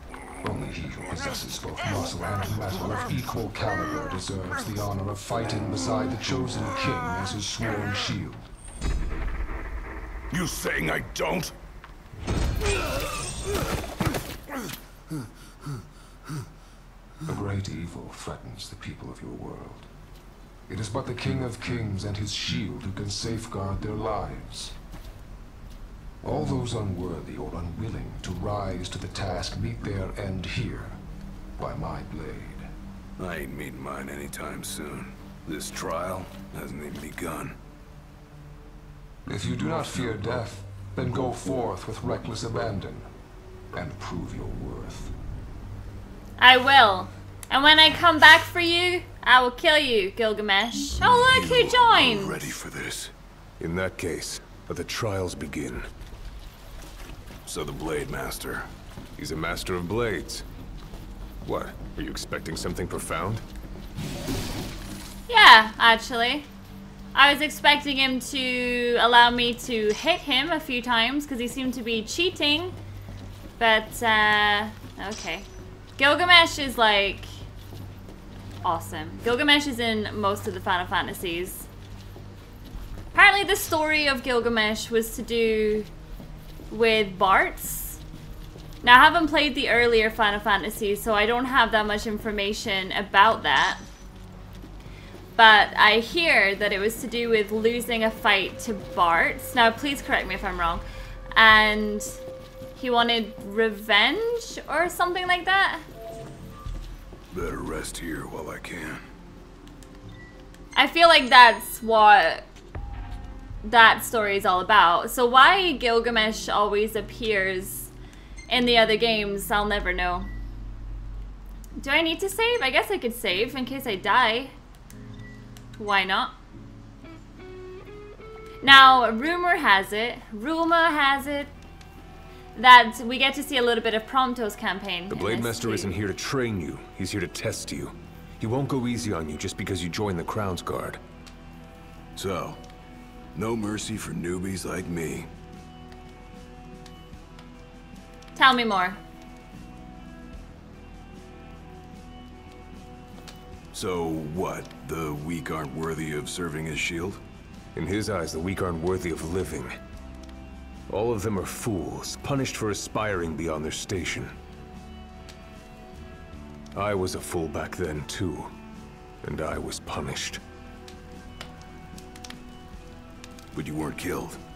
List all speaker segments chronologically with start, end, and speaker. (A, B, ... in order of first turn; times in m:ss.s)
0:00.4-0:08.5 A
0:10.3-0:11.5 B
0:17.2-0:19.9 A
0:20.7-0:24.8 A
0:26.2-0:31.0 A
0:31.6-0:32.7 A
0:33.2-0:37.6 B
0:39.2-0:43.1 A
0:43.7-0:45.1 A
0:46.4-0:52.5 C
0:51.3-0:53.1 B
0:53.6-0:55.9 D
0:57.5-0:58.7 B
0:59.2-1:00.4 D
1:01.4-1:03.4 D
1:05.3-1:06.5 C
1:07.1-1:12.8 C
1:13.6-1:15.5 C
1:16.0-1:17.3 C
1:18.6-1:21.7 C
1:23.1-1:25.9 C
1:26.7-1:28.0 C
1:28.8-1:33.8 C
1:35.4-1:42.2 C
1:42.8-1:45.8 C
1:47.3-1:49.0 B
1:50.8-1:52.5 C
1:53.6-1:57.9 C
1:58.5-2:00.3 C
2:01.8-2:04.5 C
2:05.8-2:06.3 C
2:08.6-2:11.5 C
2:12.5-2:15.9 C
2:15.1-2:21.0 D
2:22.2-2:22.6 B
2:23.4-2:25.3 B
2:28.4-2:29.0 C
2:33.7-2:37.2 B
2:37.8-2:39.7 D
2:40.9-2:44.3 D
2:46.8-2:48.5 D
2:49.2-2:50.4 D
2:53.5-2:54.4 B